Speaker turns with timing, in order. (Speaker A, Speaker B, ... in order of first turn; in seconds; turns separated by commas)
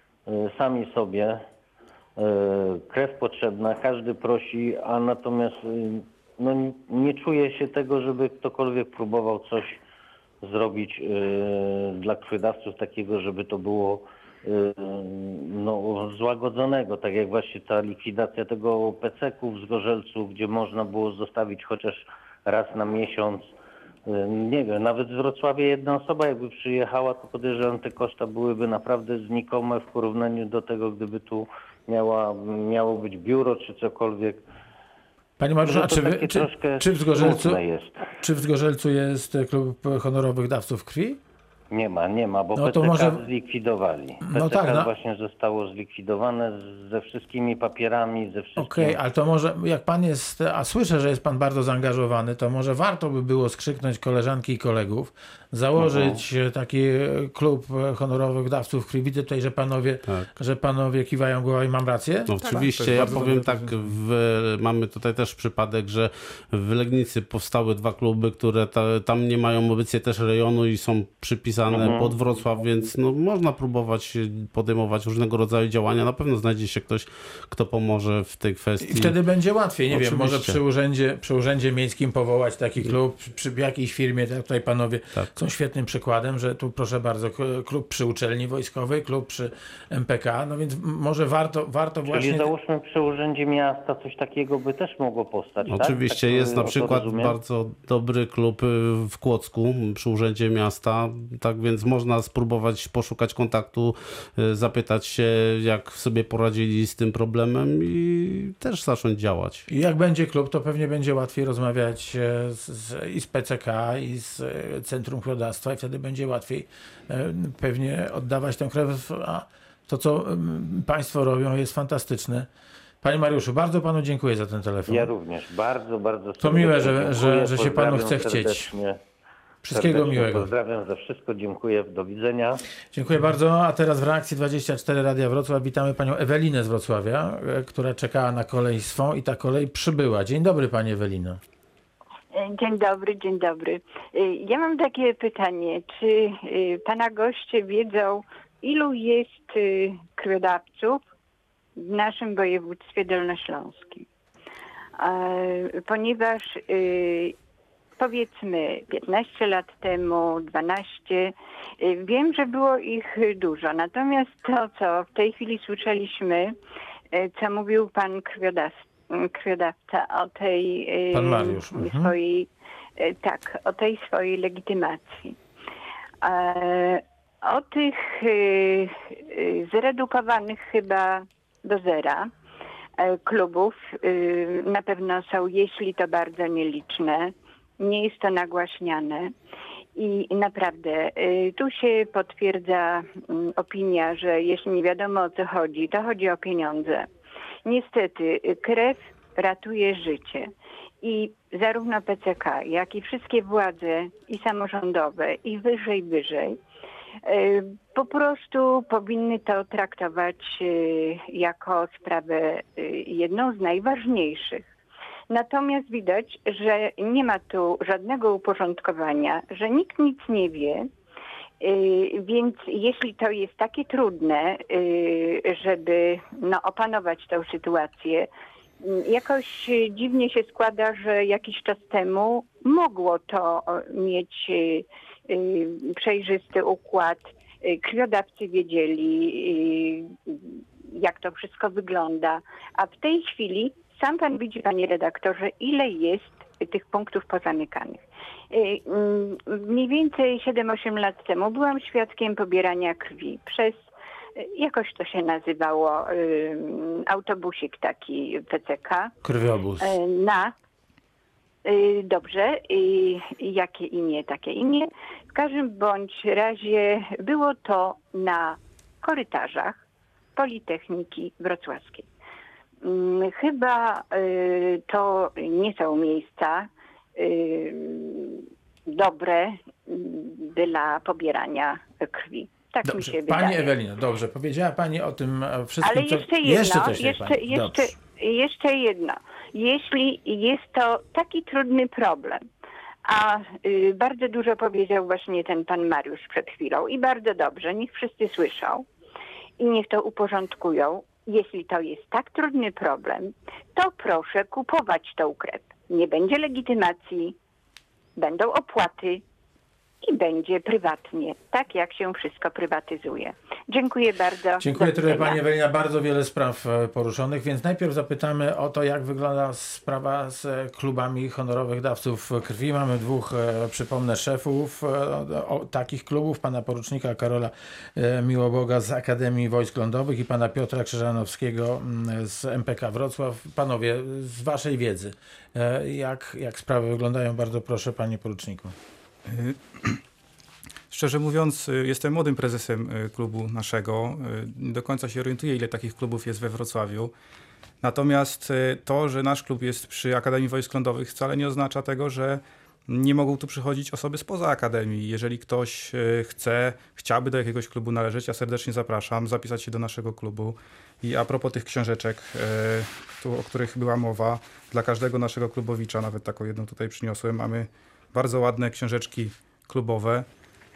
Speaker A: 0.3-1.4, Speaker A: 2.2-9.8, Speaker A: 10.4-23.5, Speaker A: 24.1-34.4, Speaker B: 35.4-37.6, Speaker A: 35.6-38.0, Speaker B: 38.2-41.2, Speaker A: 41.7-49.0, Speaker B: 42.5-43.2, Speaker B: 44.2-44.9, Speaker B: 48.6-62.4, Speaker A: 55.8-56.2, Speaker C: 62.3-79.2, Speaker D: 62.5-63.9, Speaker A: 71.7-72.2, Speaker B: 78.8-92.5, Speaker C: 79.9-80.6, Speaker A: 92.1-97.4, Speaker C: 95.7-109.7, Speaker B: 109.7-122.5, Speaker B: 123.0-125.1, Speaker A: 124.9-129.0, Speaker B: 126.4-128.7, Speaker B: 129.6-130.5, Speaker A: 129.7-132.6, Speaker B: 132.9-141.4, Speaker E: 142.3-151.0, Speaker E: 151.8-154.0, Speaker E: 155.0-157.3, Speaker E: 158.0-166.5, Speaker E: 167.1-172.5, Speaker B: 171.1-172.1, Speaker E: 173.0-175.3, Speaker E: 176.2-182.3, Speaker E: 183.0-189.3, Speaker E: 189.9-197.1, Speaker E: 197.6-200.5, Speaker E: 201.0-206.6, Speaker E: 207.2-214.7, Speaker E: 215.3-220.9, Speaker E: 221.6-228.3, Speaker E: 228.8-253.8, Speaker E: 254.4-259.1, Speaker B: 259.2-259.9, Speaker E: 259.8-260.5, Speaker E: 261.6-269.8, Speaker E: 270.4-272.1, Speaker E: 272.8-283.7, Speaker B: 282.8-287.9, Speaker E: 285.8-292.4, Speaker E: 293.0-298.8, Speaker E: 299.6-307.3, Speaker E: 308.1-309.2, Speaker E: 310.0-315.4, Speaker B: 314.6-338.7, Speaker D: 339.3-340.0, Speaker D: 340.9-347.1, Speaker D: 347.8-370.3